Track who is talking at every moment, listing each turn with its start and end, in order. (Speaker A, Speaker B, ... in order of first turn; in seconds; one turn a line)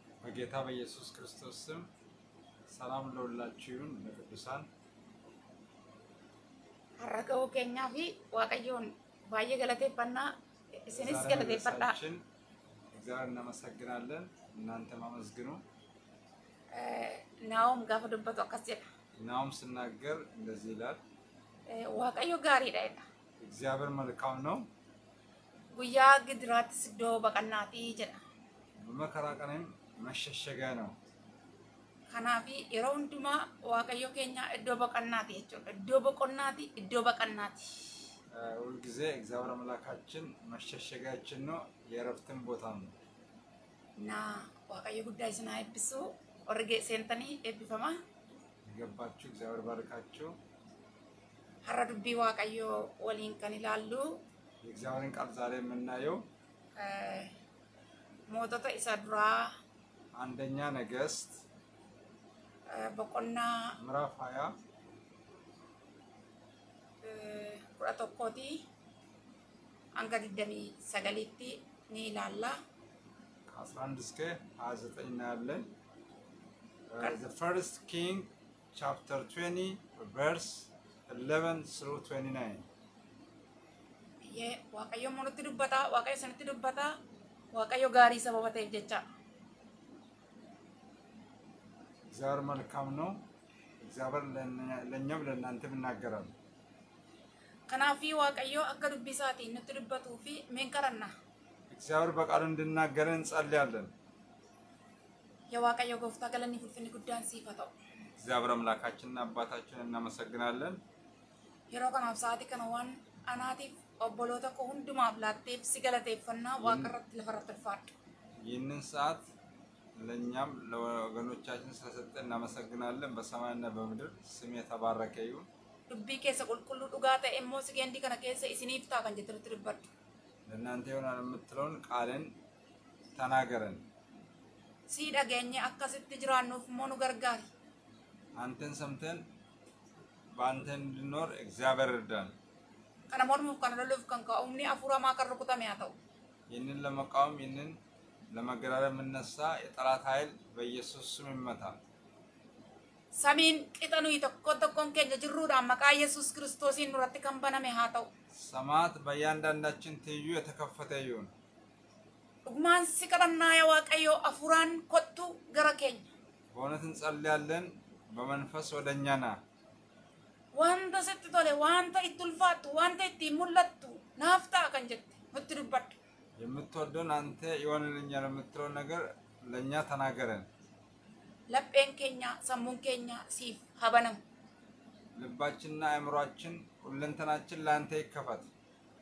Speaker A: 0.2-1.9
Speaker A: 2.7-4.7
Speaker B: 7.0-12.0
Speaker A: 10.9-12.2
Speaker A: 12.9-15.6
Speaker B: 16.7-18.9
Speaker A: 19.2-21.0
Speaker B: 21.7-23.0
Speaker A: 23.4-24.7
Speaker B: 25.7-28.2
Speaker A: 28.8-30.9
Speaker B: 32.1-37.9
Speaker A: 38.3-42.9
Speaker B: 44.0-48.0
Speaker A: 48.6-50.3
Speaker B: 51.6-54.1
Speaker A: 54.6-56.2
Speaker B: 56.8-57.3
Speaker B: 58.3-59.5
Speaker A: 60.1-61.4
Speaker B: 62.7-63.7
Speaker A: 63.8-64.5
Speaker B: 67.0-68.6
Speaker B: 70.0-72.6
Speaker A: 73.5-75.7
Speaker A: 76.9-82.6
Speaker B: 84.2-87.0
Speaker B: 87.5-89.0
Speaker A: 92.1-93.2
Speaker A: 93.8-96.3
Speaker B: 97.7-101.1
Speaker A: 101.7-103.9
Speaker B: 105.5-107.7
Speaker A: 108.2-110.8
Speaker B: 111.7-117.9
Speaker A: 116.6-116.9
Speaker A: 118.4-119.2
Speaker A: 120.0-125.5
Speaker B: 125.9-129.9
Speaker A: 130.5-132.3
Speaker A: 133.1-133.8
Speaker B: 134.9-137.5
Speaker A: 138.3-139.2
Speaker A: 140.3-142.3
Speaker B: 143.1-145.9
Speaker A: 146.5-147.8
Speaker A: 148.3-151.8
Speaker B: 153.1-158.1
Speaker A: 158.3-161.3
Speaker B: 162.4-166.1
Speaker A: 166.5-169.4
Speaker B: 170.5-176.0
Speaker A: 176.4-180.5
Speaker B: 181.5-184.2
Speaker A: 185.1-188.5